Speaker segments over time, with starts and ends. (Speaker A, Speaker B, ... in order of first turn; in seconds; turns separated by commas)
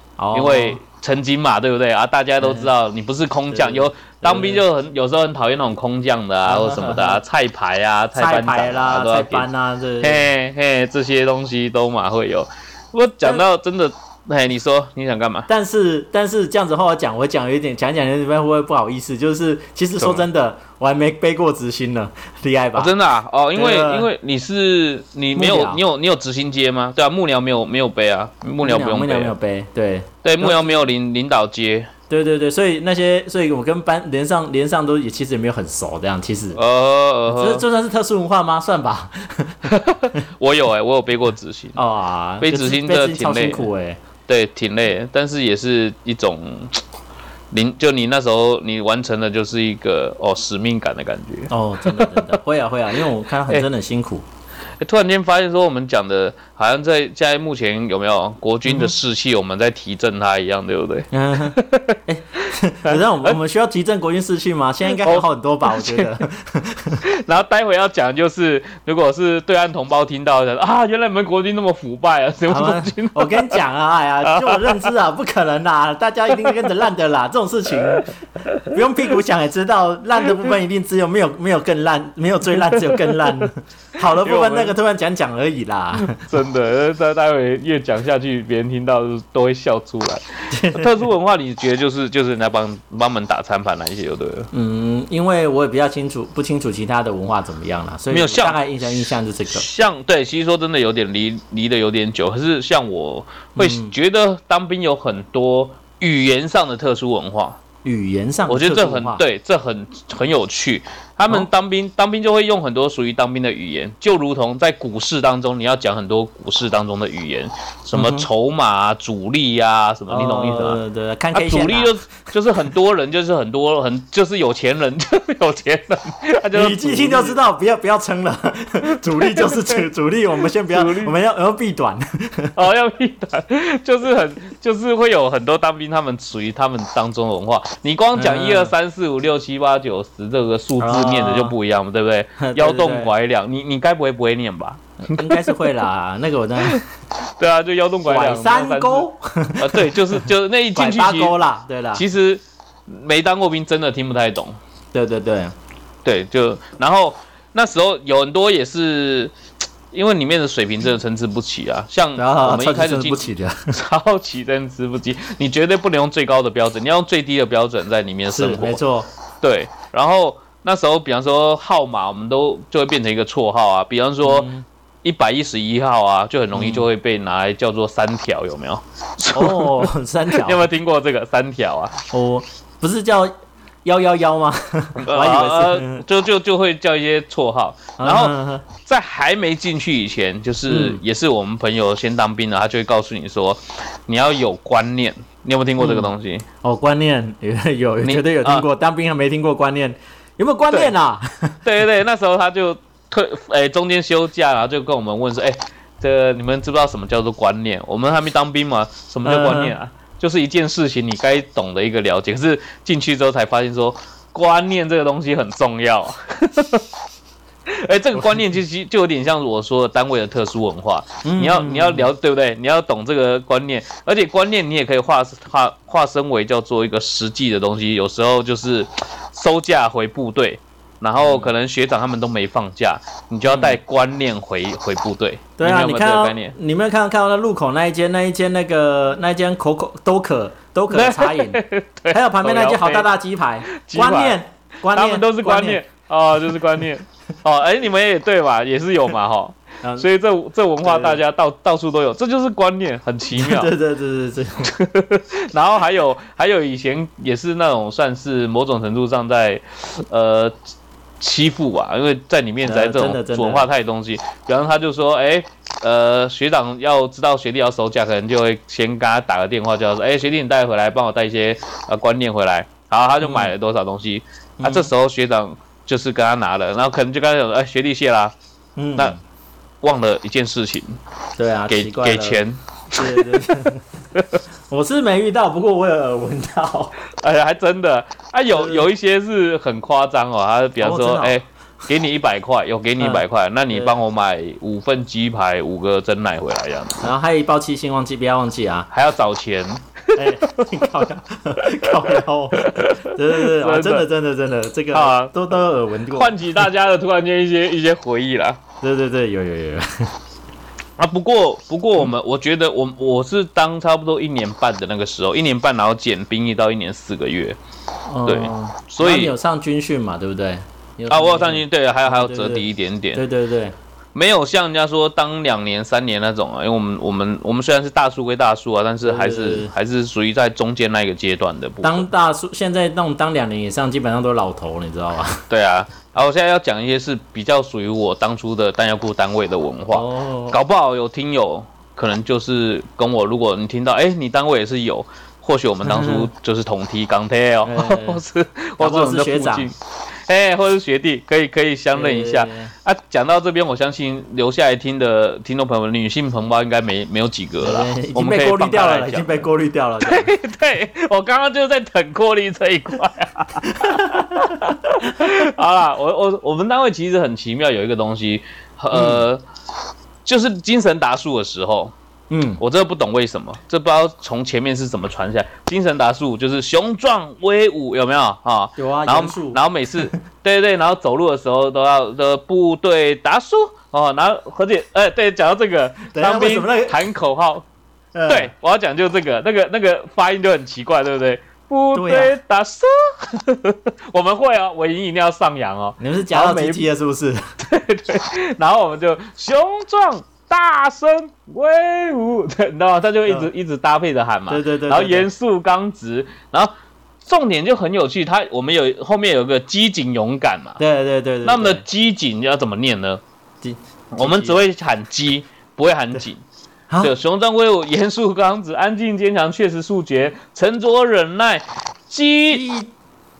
Speaker A: 0.2-0.8, Speaker B: 0.3-9.4, Speaker A: 2.4-2.7, Speaker A: 3.5-4.6, Speaker A: 6.5-7.2, Speaker A: 8.1-10.2, Speaker B: 10.0-15.5, Speaker A: 15.5-22.9, Speaker B: 20.0-20.2, Speaker B: 22.8-29.3, Speaker A: 23.5-24.1, Speaker A: 25.3-25.8, Speaker A: 28.6-30.9, Speaker B: 30.2-31.9, Speaker A: 32.1-36.6, Speaker B: 36.5-37.6, Speaker A: 37.3-40.2, Speaker B: 39.7-41.8, Speaker A: 41.8-44.0, Speaker B: 42.4-43.7, Speaker B: 44.3-46.8, Speaker B: 47.5-52.3, Speaker A: 51.5-54.2, Speaker B: 54.8-62.0, Speaker A: 58.6-58.9, Speaker A: 61.1-67.0, Speaker B: 62.9-63.3, Speaker B: 64.8-66.1, Speaker B: 67.0-73.6, Speaker A: 72.5-78.1, Speaker B: 74.2-74.9, Speaker B: 76.3-76.7, Speaker B: 77.8-78.7, Speaker A: 78.7-86.2, Speaker B: 82.5-83.5, Speaker B: 84.1-84.8, Speaker B: 86.0-94.5, Speaker A: 90.5-90.9, Speaker A: 94.5-99.6, Speaker B: 98.1-107.6, Speaker A: 103.5-103.9, Speaker A: 107.8-109.2, Speaker B: 108.5-120.8, Speaker A: 117.9-118.3, Speaker A: 120.1-121.9, Speaker B: 121.3-127.4, Speaker A: 126.5-132.6, Speaker B: 128.9-129.8, Speaker B: 130.4-131.1, Speaker B: 132.6-145.7, Speaker A: 138.1-138.7, Speaker A: 140.8-141.6, Speaker A: 142.4-143.1, Speaker A: 145.0-146.8, Speaker B: 146.6-149.1, Speaker A: 148.1-152.0, Speaker B: 149.6-151.3, Speaker B: 151.9-154.6, Speaker A: 154.9-155.5, Speaker B: 156.0-159.3, Speaker B: 159.9-168.8, Speaker A: 162.2-163.7, Speaker A: 168.3-169.1, Speaker B: 169.4-174.5, Speaker A: 174.2-174.6, Speaker B: 175.0-181.9, Speaker A: 176.5-176.9, Speaker A: 179.3-180.7, Speaker A: 182.1-183.3, Speaker A: 183.8-186.0, Speaker B: 185.0-196.4, Speaker A: 188.0-188.7, Speaker A: 190.7-191.0, Speaker A: 195.8-196.1, Speaker A: 196.6-201.6, Speaker B: 198.0-198.7, Speaker B: 201.6-216.8, Speaker A: 209.2-209.7, Speaker B: 217.7-236.5, Speaker A: 221.2-222.1, Speaker A: 231.2-231.5, Speaker A: 233.4-233.8, Speaker A: 235.6-241.6, Speaker B: 240.9-243.1, Speaker A: 242.1-245.8, Speaker B: 243.7-244.4, Speaker B: 244.9-253.7, Speaker A: 250.8-251.2, Speaker A: 253.3-254.7, Speaker B: 254.6-260.6, Speaker B: 261.2-278.3, Speaker A: 262.6-263.7, Speaker A: 273.2-273.5, Speaker A: 274.6-274.9, Speaker A: 278.8-279.2, Speaker B: 279.8-281.0, Speaker A: 281.4-282.4, Speaker B: 281.7-284.4, Speaker A: 282.9-283.8, Speaker A: 284.7-286.9, Speaker B: 287.1-297.1, Speaker A: 288.5-288.9, Speaker A: 290.8-291.4, Speaker A: 293.0-293.9, Speaker A: 297.0-298.9, Speaker B: 298.9-300.9, Speaker A: 300.1-306.6, Speaker B: 301.6-304.1, Speaker B: 304.9-305.5, Speaker B: 306.1-308.6, Speaker A: 308.8-309.9, Speaker B: 311.0-317.6, Speaker A: 318.1-323.7, Speaker B: 318.2-319.3, Speaker B: 321.1-323.2, Speaker B: 324.1-332.1, Speaker A: 329.0-329.7, Speaker A: 331.8-335.4, Speaker B: 335.5-359.5, Speaker A: 339.9-340.6, Speaker A: 345.8-346.3, Speaker A: 347.6-348.2, Speaker A: 348.8-349.7, Speaker A: 351.9-352.7, Speaker A: 357.6-360.3, Speaker B: 360.0-369.4, Speaker A: 363.6-364.6, Speaker A: 368.9-369.2, Speaker B: 370.2-371.9, Speaker A: 372.3-372.6, Speaker B: 372.6-387.6, Speaker A: 378.8-380.1, Speaker A: 386.1-387.1, Speaker A: 388.1-388.5, Speaker B: 388.3-396.9, Speaker A: 391.9-392.4, Speaker A: 396.0-397.4, Speaker B: 397.6-406.7, Speaker A: 404.5-405.3, Speaker B: 407.2-410.8, Speaker A: 410.8-411.8, Speaker B: 411.4-413.2, Speaker A: 413.6-414.6, Speaker B: 414.1-416.4, Speaker B: 417.0-422.6, Speaker A: 422.5-422.9